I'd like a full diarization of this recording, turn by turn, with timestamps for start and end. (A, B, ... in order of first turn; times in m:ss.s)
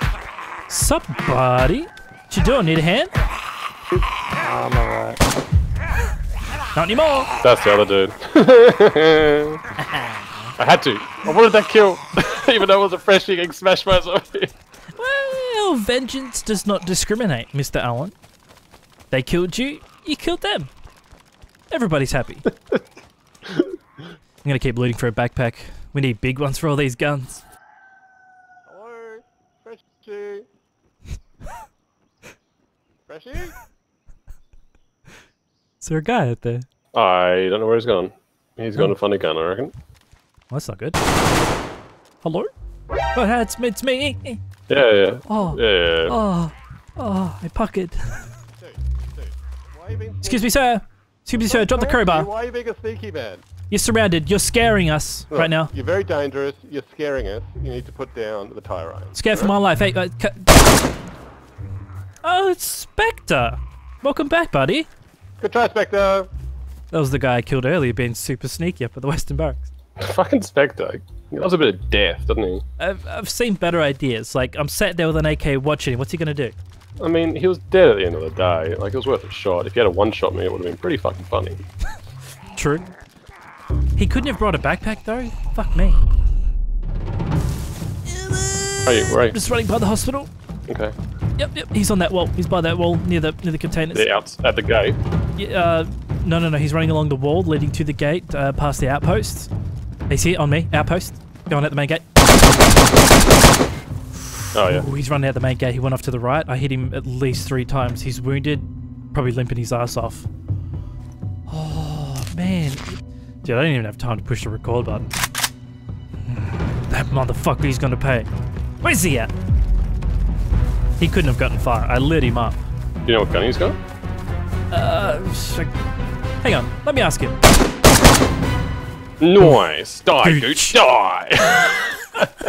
0:00.7-0:03.1 A
0:06.7-0:07.3 A
0:07.4-0:09.6 B
0:09.8-0:10.5 A
0:10.6-0:14.5 B
0:15.0-0:18.1 A
0:19.1-0:20.7 A
0:21.7-0:22.4 A
0:24.4-0:27.4 A
0:28.7-0:30.4 C
0:33.1-0:33.5 C
0:35.8-0:36.6 A
0:36.9-0:39.7 B
0:40.5-0:41.0 A
0:42.2-0:42.5 A
0:43.1-0:44.4 A
0:44.7-0:46.2 B
0:45.3-0:48.3 A
0:48.6-0:50.5 C
0:50.2-0:52.3 A
0:51.3-0:53.4 C
0:53.7-0:55.7 A
0:55.3-0:59.5 C
0:59.1-1:00.8 A
1:02.2-1:04.9 A
1:05.4-1:06.3 C
1:06.9-1:09.7 A
1:10.0-1:12.6 B
1:12.8-1:16.6 A
1:17.0-1:21.6 B
1:22.5-1:22.9 A
1:24.0-1:26.0 A
1:28.1-1:30.3 A
1:28.8-1:29.4 B
1:30.7-1:30.9 B
1:31.4-1:34.0 A
1:33.9-1:35.0 B
1:35.4-1:39.5 A
1:40.1-1:42.0 A
1:44.5-1:44.8 B
1:44.7-1:50.3 A
1:51.5-1:55.1 A
1:56.2-1:58.3 A
1:58.8-1:59.3 A
2:01.0-2:02.6 A
2:03.0-2:03.8 B
2:04.7-2:05.7 A
2:06.4-2:07.4 A
2:09.2-2:12.3 B
2:10.2-2:10.8 A